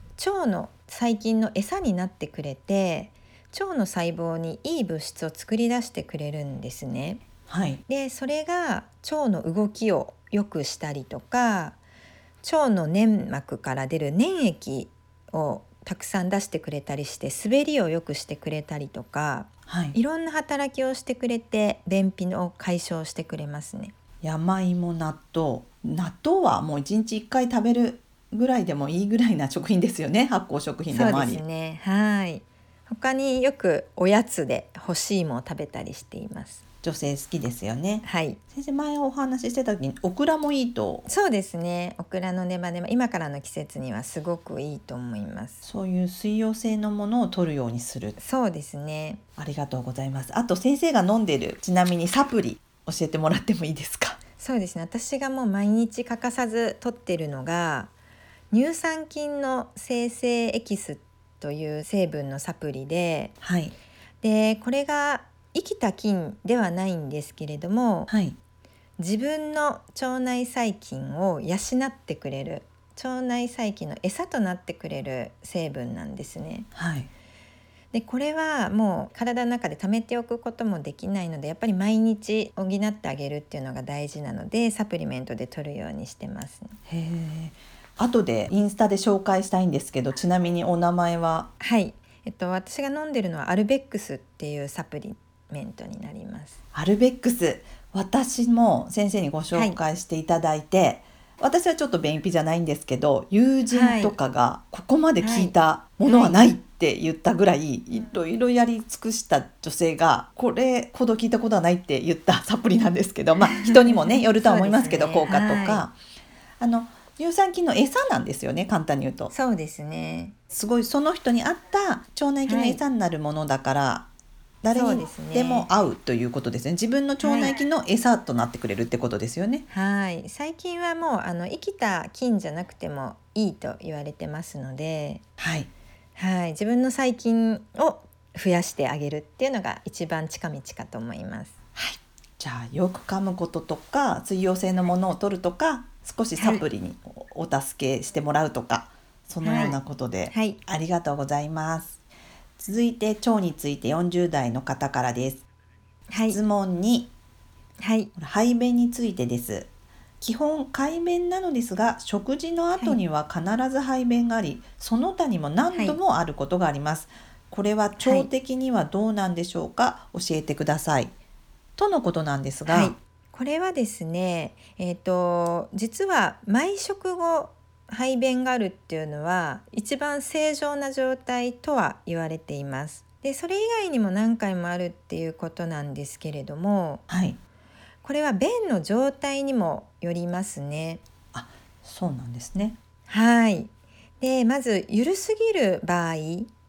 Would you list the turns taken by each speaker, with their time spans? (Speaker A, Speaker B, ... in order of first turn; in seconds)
Speaker A: 0.2-7.2, 7.9-11.8, 12.4-23.9, 30.9-36.6, 38.0-38.4, 41.1-45.6, 48.2-49.2, 54.4-57.9, 58.5-63.3, 64.2-68.1, 69.0-76.7, 77.9-86.7, 91.6-96.6, 99.5-99.8, 103.7-104.1, 105.2-106.4, 113.4-115.8, 119.3-120.3, 122.5-122.8, 124.7-125.7, 127.2-127.5, 129.7-135.2, 136.2-141.5, 146.3-146.6, 149.4-149.8, 150.3-150.6, 156.1-156.4, 157.8-158.1, 165.7-166.0, 168.0-168.3, 172.7-187.0, 188.0-191.0, 193.1-196.5
Speaker B: 7.5-7.8, 19.7-20.0, 24.2-31.4, 36.8-41.1, 45.6-48.2, 49.4-54.2, 63.4-63.7, 68.1-68.3, 76.7-77.1, 86.9-91.5, 96.7-115.9, 116.6-119.3, 120.5-124.1, 124.6-129.7, 135.4-135.7, 141.8-152.0, 152.6-155.4, 156.3-157.1, 158.2-159.7, 160.2-171.1, 171.8-172.9, 187.1-187.4, 191.3-192.8